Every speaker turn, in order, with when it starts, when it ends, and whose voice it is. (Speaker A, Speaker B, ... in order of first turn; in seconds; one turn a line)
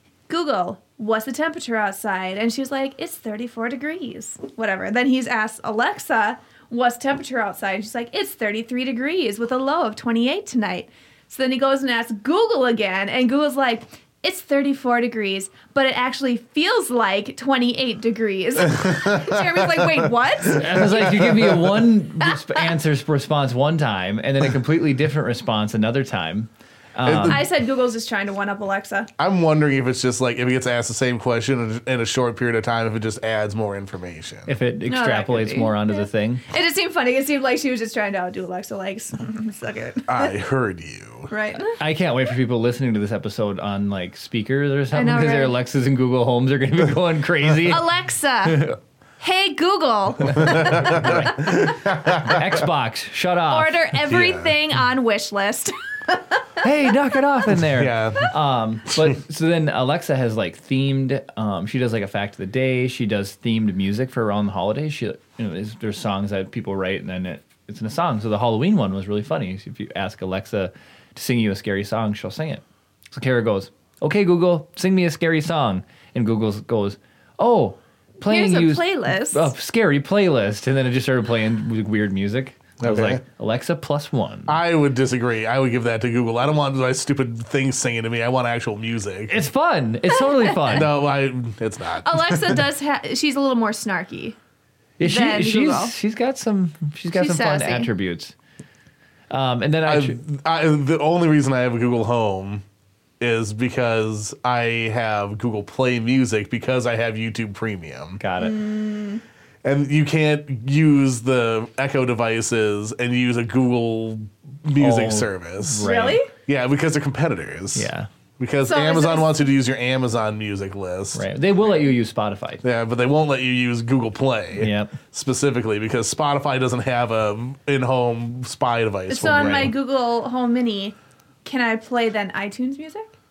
Speaker A: 0.3-21.1
Speaker B: 18.8-21.6
Speaker C: 20.5-27.4
Speaker B: 27.1-27.4
Speaker A: 27.2-29.1
Speaker B: 29.2-34.5
Speaker C: 34.5-36.4
Speaker A: 34.9-40.3
Speaker B: 40.1-41.3
Speaker A: 41.3-41.8
Speaker C: 41.8-47.8
Speaker A: 44.9-45.5
Speaker A: 47.6-48.6
Speaker C: 48.4-48.8
Speaker A: 49.2-51.4
Speaker C: 50.3-51.3
Speaker B: 50.4-52.6
Speaker C: 52.2-53.8
Speaker A: 53.5-56.2
Speaker B: 54.1-54.5
Speaker C: 56.6-72.6
Speaker B: 57.5-58.3
Speaker C: 73.1-84.6
Speaker A: 78.2-79.5
Speaker B: 82.8-83.2
Speaker B: 84.5-89.4
Speaker C: 89.3-90.9
Speaker B: 90.7-92.6
Speaker A: 92.0-94.3
Speaker C: 95.0-98.3
Speaker A: 95.0-95.9
Speaker A: 97.1-97.9
Speaker C: 99.3-100.2
Speaker B: 99.9-102.6
Speaker B: 103.2-108.2
Speaker C: 108.2-108.6
Speaker A: 108.4-109.2
Speaker B: 109.6-115.9
Speaker C: 114.8-116.2
Speaker A: 115.8-116.3
Speaker B: 116.5-121.2
Speaker C: 117.8-118.1
Speaker A: 118.7-119.4
Speaker C: 121.1-122.6
Speaker B: 122.6-129.8
Speaker C: 124.6-125.0
Speaker A: 129.1-133.1
Speaker C: 129.3-129.7